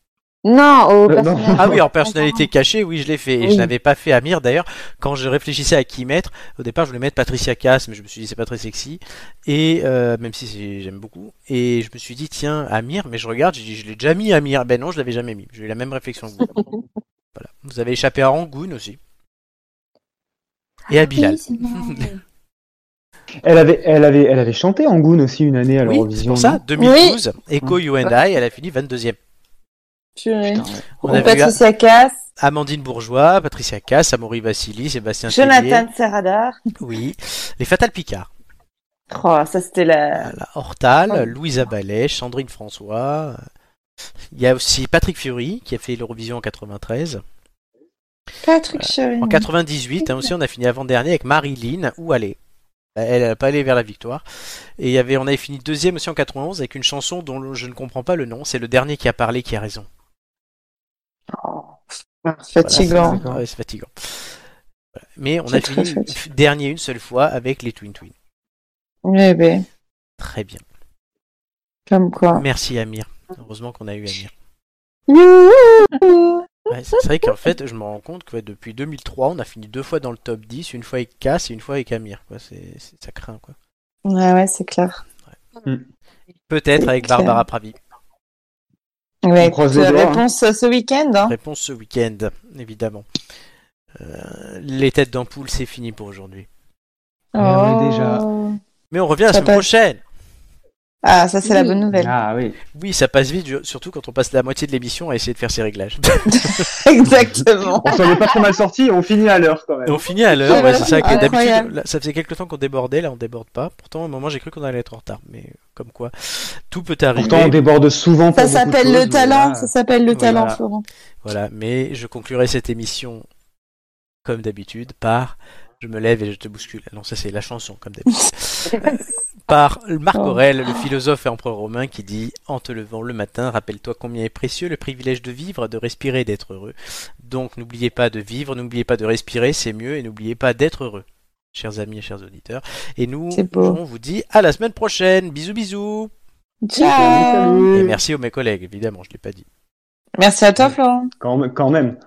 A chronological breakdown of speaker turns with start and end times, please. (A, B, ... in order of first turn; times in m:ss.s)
0:00.4-0:02.5 A
0:01.1-0:01.8 B
0:01.6-0:16.8 C
0:03.4-0:03.7 A
0:17.4-0:19.0 C
0:20.9-0:22.1 C
0:21.2-0:22.2 A
0:23.4-0:26.6 B
0:25.8-0:29.2 C
0:26.8-0:27.2 D
0:30.2-0:32.2 D
0:30.5-0:31.3 B
0:31.1-0:31.6 C
0:32.4-0:35.9 C
0:35.3-0:36.6 D
0:36.8-0:38.3 C
0:39.1-0:40.4 D
0:40.2-0:43.4 C
0:44.3-0:47.2 C
0:48.4-0:49.5 D
0:48.8-0:52.4 C
0:53.0-0:54.2 C
0:54.8-0:59.9 C
1:01.3-1:01.8 D
1:02.4-1:03.2 D
1:02.6-1:04.4 C
1:02.8-1:03.4 B
1:05.2-1:08.1 C
1:05.5-1:06.1 D
1:09.0-1:09.6 D
1:10.2-1:10.6 C
1:11.9-1:12.4 D
1:12.4-1:14.3 C
1:15.1-1:16.4 D
1:16.7-1:23.6 C
1:24.1-1:25.0 D
1:26.5-1:27.8 C
1:26.8-1:27.4 D
1:29.2-1:31.3 D
1:29.4-1:30.2 B
1:31.2-1:33.1 C
1:34.0-1:36.5 C
1:37.3-1:38.6 D
1:37.4-1:38.3 B
1:38.9-1:40.0 C
1:39.3-1:39.6 D
1:41.0-1:42.1 D
1:41.5-1:41.8 A
1:41.9-1:42.6 B
1:42.7-1:46.6 C
1:46.3-1:48.2 D
1:47.8-1:51.2 B
1:49.9-1:57.6 C
1:50.4-1:51.7 D
1:57.2-2:00.6 B
1:58.3-2:00.8 D
2:01.2-2:03.2 C
2:04.2-2:26.1 C
2:08.7-2:09.0 A
2:23.3-2:23.8 D
2:26.6-2:27.7 D
2:26.8-2:28.0 B
2:27.7-2:29.4 C
2:30.2-2:31.1 D
2:31.2-2:32.0 B